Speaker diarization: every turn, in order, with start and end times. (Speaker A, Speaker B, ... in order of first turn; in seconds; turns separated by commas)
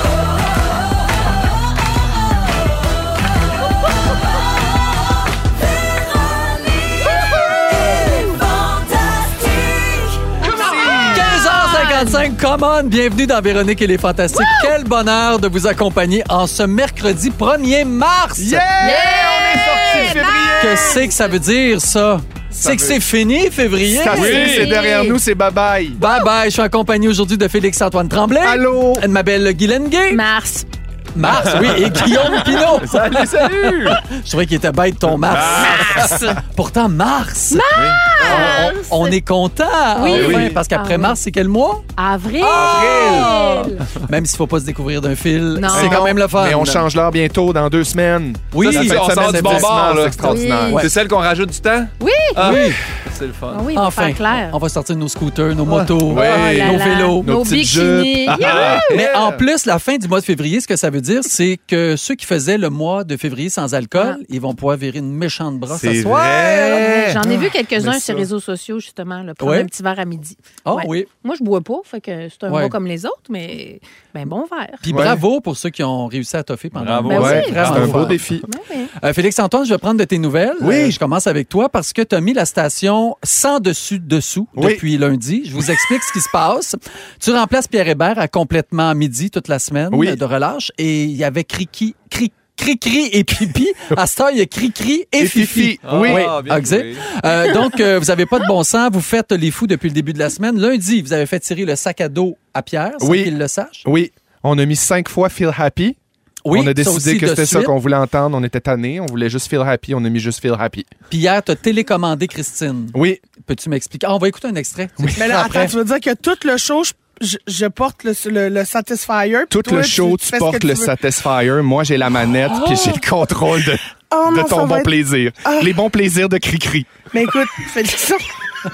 Speaker A: 10.4-11.3, Speaker B: 10.7-12.2, Speaker C: 10.7-18.7, Speaker B: 14.3-14.7, Speaker A: 18.4-21.1, Speaker D: 18.8-20.6, Speaker B: 18.8-20.6, Speaker C: 20.6-24.7, Speaker A: 22.5-23.0, Speaker A: 23.9-26.0, Speaker B: 24.1-25.2, Speaker E: 24.2-24.6, Speaker C: 26.0-30.2, Speaker A: 28.4-29.0, Speaker B: 30.1-30.7, Speaker C: 31.1-41.9, Speaker E: 31.2-34.1, Speaker B: 32.4-32.6, Speaker E: 35.1-36.2, Speaker B: 35.6-36.4, Speaker B: 37.5-39.2, Speaker E: 37.7-38.7, Speaker B: 40.0-41.2, Speaker E: 40.1-40.6, Speaker B: 42.0-43.8, Speaker C: 42.4-46.9, Speaker E: 42.4-44.0, Speaker B: 45.5-46.0, Speaker A: 45.7-50.9, Speaker C: 48.5-49.7, Speaker E: 48.6-53.7, Speaker B: 50.2-50.8, Speaker C: 50.7-51.0, Speaker B: 52.0-52.4, Speaker C: 52.4-52.8, Speaker B: 53.5-54.6, Speaker C: 53.7-57.4, Speaker E: 55.7-56.2, Speaker A: 56.1-59.3, Speaker B: 56.1-58.9, Speaker E: 58.3-59.4, Speaker C: 58.6-66.9, Speaker E: 65.7-67.2, Speaker B: 66.7-74.8, Speaker A: 67.2-68.3, Speaker C: 69.4-69.7, Speaker C: 70.7-71.1, Speaker C: 72.5-72.8, Speaker C: 74.8-78.2, Speaker A: 74.9-75.2, Speaker E: 76.8-78.3, Speaker B: 77.1-77.7, Speaker A: 77.1-78.5, Speaker B: 78.4-78.9, Speaker C: 79.0-103.8, Speaker A: 80.6-81.0, Speaker A: 84.6-84.8, Speaker A: 89.9-90.2, Speaker A: 95.2-96.3, Speaker E: 95.8-97.1, Speaker A: 103.0-103.3, Speaker A: 103.8-106.0, Speaker C: 106.5-107.7, Speaker A: 106.5-110.9, Speaker C: 111.1-115.8, Speaker A: 112.9-113.2, Speaker A: 115.0-115.4, Speaker D: 115.2-120.9, Speaker A: 119.5-127.0, Speaker D: 122.5-123.0, Speaker D: 124.1-125.7, Speaker D: 127.1-128.3